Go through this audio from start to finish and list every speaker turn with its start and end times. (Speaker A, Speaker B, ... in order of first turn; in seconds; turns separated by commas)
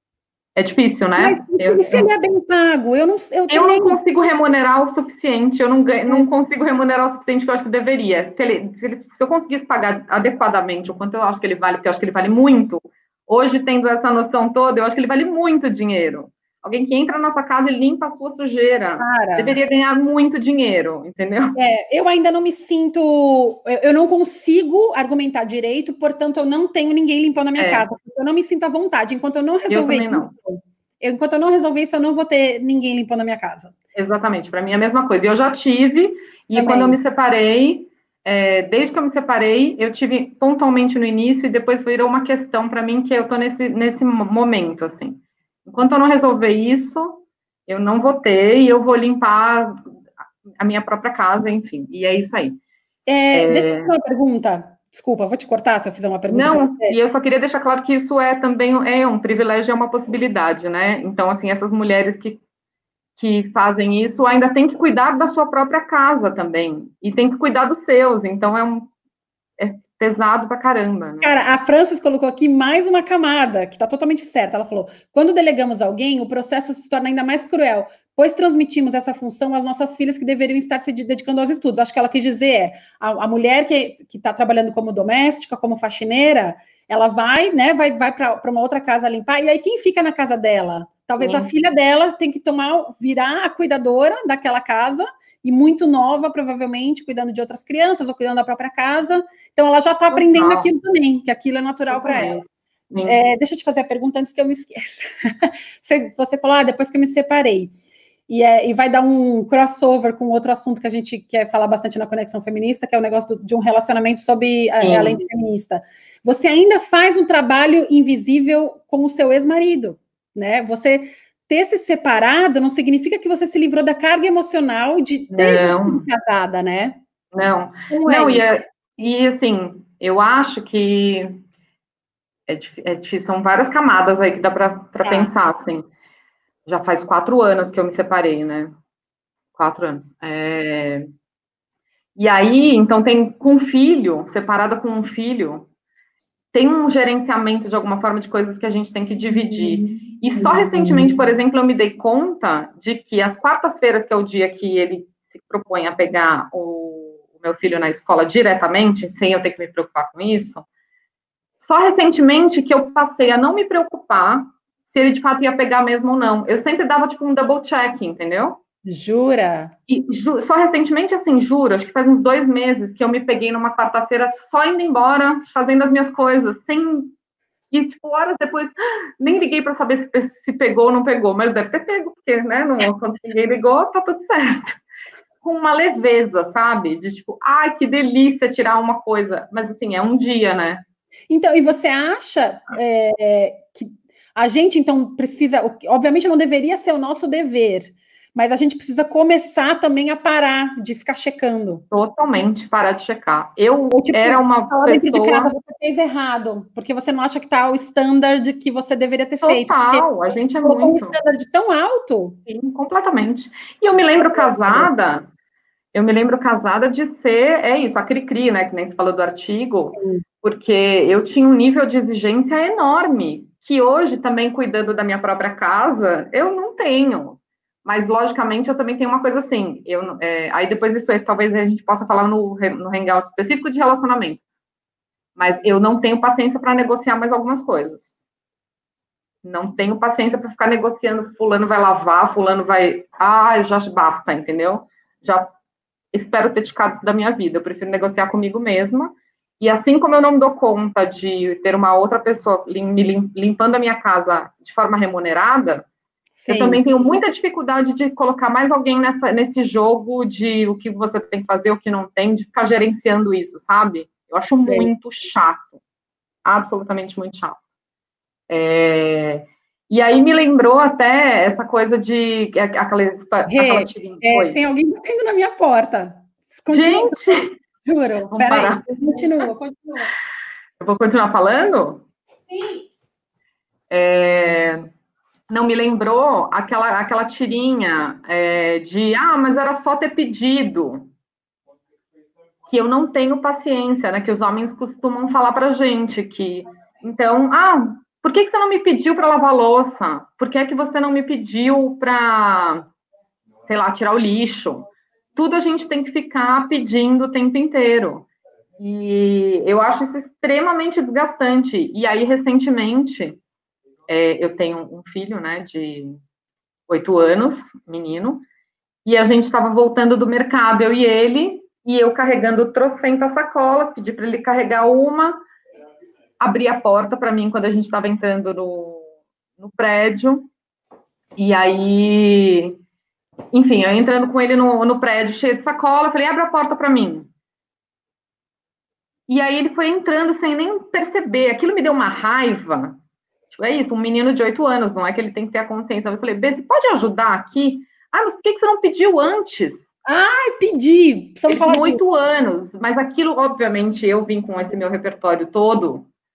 Speaker A: 0.6-2.1, Speaker B: 1.2-4.0, Speaker A: 3.5-21.6, Speaker B: 19.0-19.6, Speaker B: 21.6-33.8, Speaker A: 27.6-27.9, Speaker A: 29.7-30.3, Speaker A: 34.0-49.8, Speaker B: 36.6-37.0, Speaker A: 50.6-52.6, Speaker B: 53.1-57.0, Speaker A: 53.3-53.9, Speaker A: 56.3-62.4, Speaker A: 63.2-68.9, Speaker A: 69.6-71.4, Speaker B: 71.2-102.3, Speaker A: 91.2-91.5, Speaker A: 100.1-100.7, Speaker A: 101.9-103.2, Speaker B: 103.0-107.7, Speaker B: 108.3-127.0, Speaker A: 114.8-115.2, Speaker A: 125.3-126.1, Speaker A: 127.3-131.4, Speaker B: 127.9-128.5, Speaker A: 132.5-135.8, Speaker B: 135.0-135.3, Speaker A: 136.7-138.7, Speaker A: 139.6-141.1, Speaker A: 142.2-145.7, Speaker A: 146.5-160.7, Speaker B: 149.4-151.2, Speaker A: 161.6-168.6, Speaker B: 168.9-169.7, Speaker A: 169.9-177.1, Speaker A: 177.7-184.8, Speaker A: 185.4-190.8, Speaker B: 191.3-201.8, Speaker A: 201.9-205.5, Speaker B: 203.9-212.4, Speaker A: 209.4-211.2, Speaker A: 212.5-215.3, Speaker B: 214.2-214.9, Speaker A: 215.9-234.4, Speaker B: 220.0-220.2, Speaker A: 235.4-238.3, Speaker A: 239.4-245.5, Speaker A: 246.1-255.9, Speaker B: 256.4-256.9, Speaker A: 256.5-265.8, Speaker B: 264.6-264.9, Speaker A: 266.4-267.6, Speaker A: 268.5-274.6, Speaker B: 273.5-280.1, Speaker A: 276.7-277.5, Speaker A: 278.3-278.9, Speaker A: 280.8-282.1, Speaker B: 282.5-282.9, Speaker A: 283.9-284.9, Speaker A: 285.5-291.1, Speaker A: 292.7-302.9, Speaker A: 303.7-313.4, Speaker A: 314.1-316.2, Speaker A: 316.9-318.4, Speaker A: 319.1-325.4, Speaker A: 326.4-329.1, Speaker A: 329.6-330.5, Speaker A: 331.4-332.8, Speaker A: 333.5-337.3, Speaker A: 339.3-343.0, Speaker A: 343.5-349.9, Speaker B: 350.1-352.0, Speaker A: 351.5-356.1